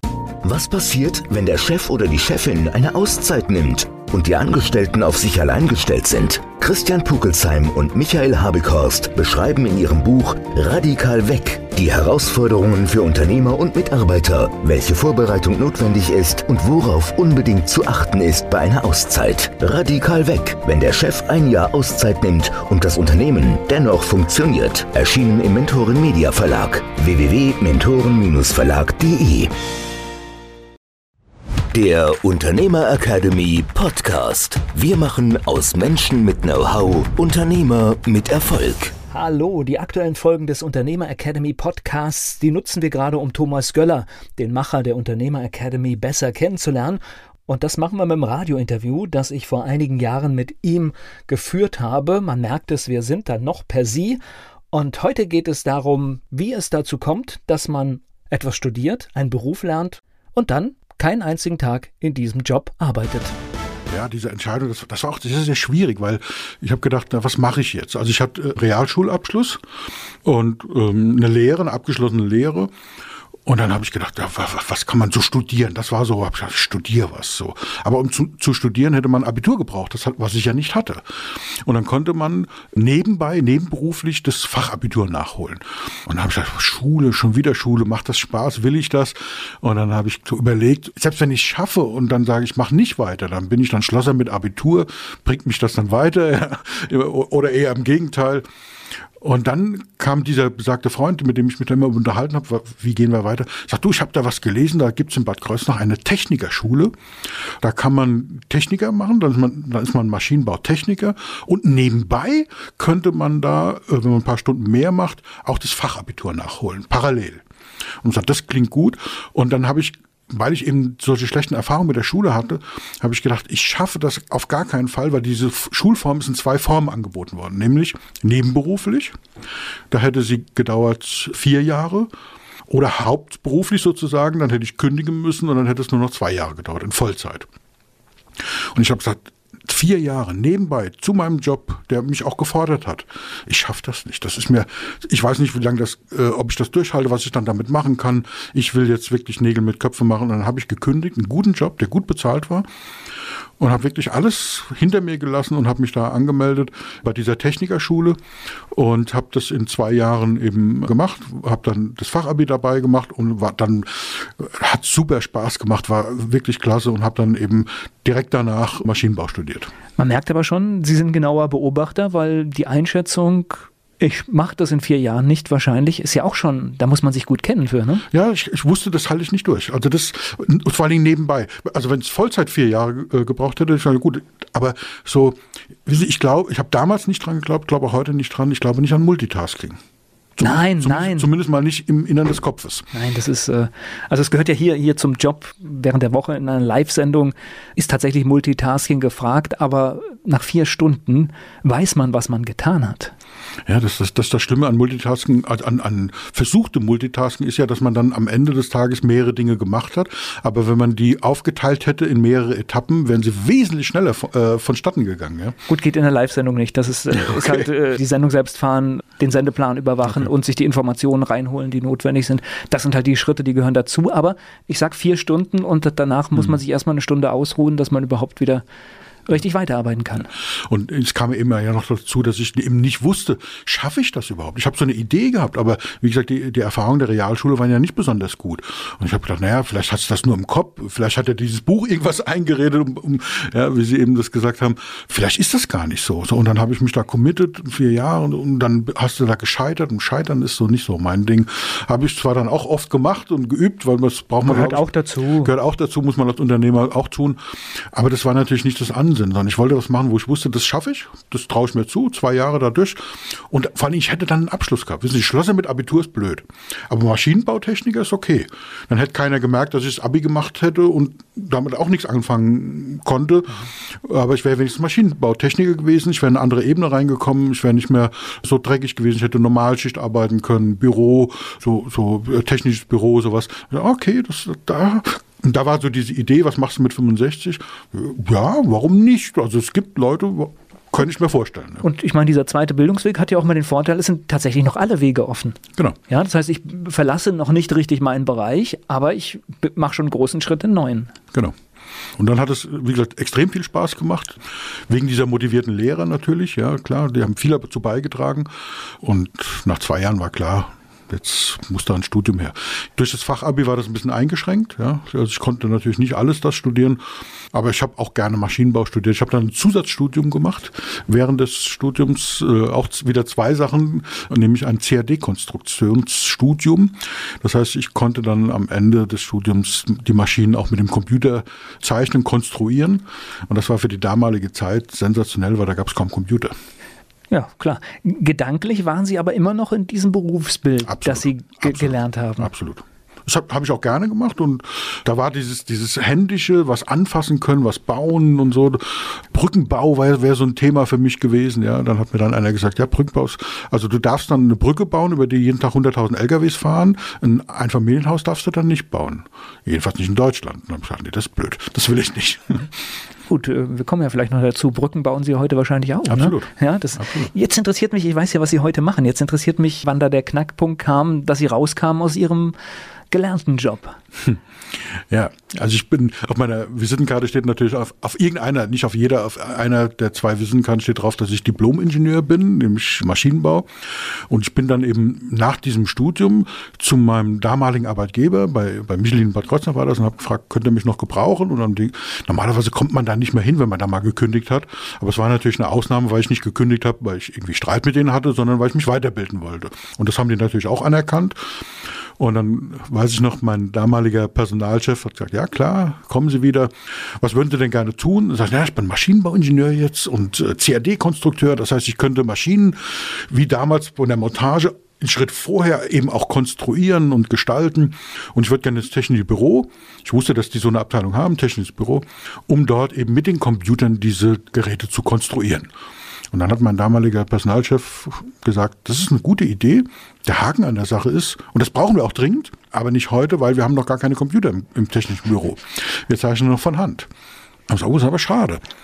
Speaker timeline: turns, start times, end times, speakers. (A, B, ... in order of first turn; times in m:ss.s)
0:00.4-0:29.5 A
0:31.7-0:38.9 A
0:39.1-0:54.2 B
0:54.7-1:03.4 B
1:03.9-1:09.6 C
1:10.2-1:12.7 C
1:13.5-1:38.4 C
1:39.2-1:46.9 C
1:47.6-1:57.4 C
1:58.0-2:09.2 C
2:09.9-2:12.1 C
2:12.7-2:17.5 C
2:18.7-2:32.7 C
2:33.6-2:38.2 C
2:38.7-2:49.7 C
2:50.0-2:58.0 B
2:58.1-3:09.8 C
3:10.4-3:12.9 C
3:10.4-3:11.3 B
3:12.9-3:23.1 B
3:23.7-3:35.6 C
3:35.7-3:48.6 B
3:37.1-3:37.7 C
3:49.3-3:50.3 B
3:50.7-4:14.9 C
4:14.4-4:15.5 B
4:15.4-4:17.4 C
4:17.9-4:51.9 C
4:51.8-4:55.6 B
4:56.1-5:01.1 B
5:02.2-5:04.4 C
5:04.9-5:08.5 C
5:09.0-5:17.0 C
5:17.5-5:36.5 C
5:37.3-5:42.5 B
5:40.9-6:02.7 C
6:03.3-6:12.6 B
6:06.1-6:07.3 C
6:13.1-6:14.0 B
6:14.9-6:41.4 C
6:42.2-7:05.7 C
7:06.3-7:17.1 C
7:17.7-7:18.6 C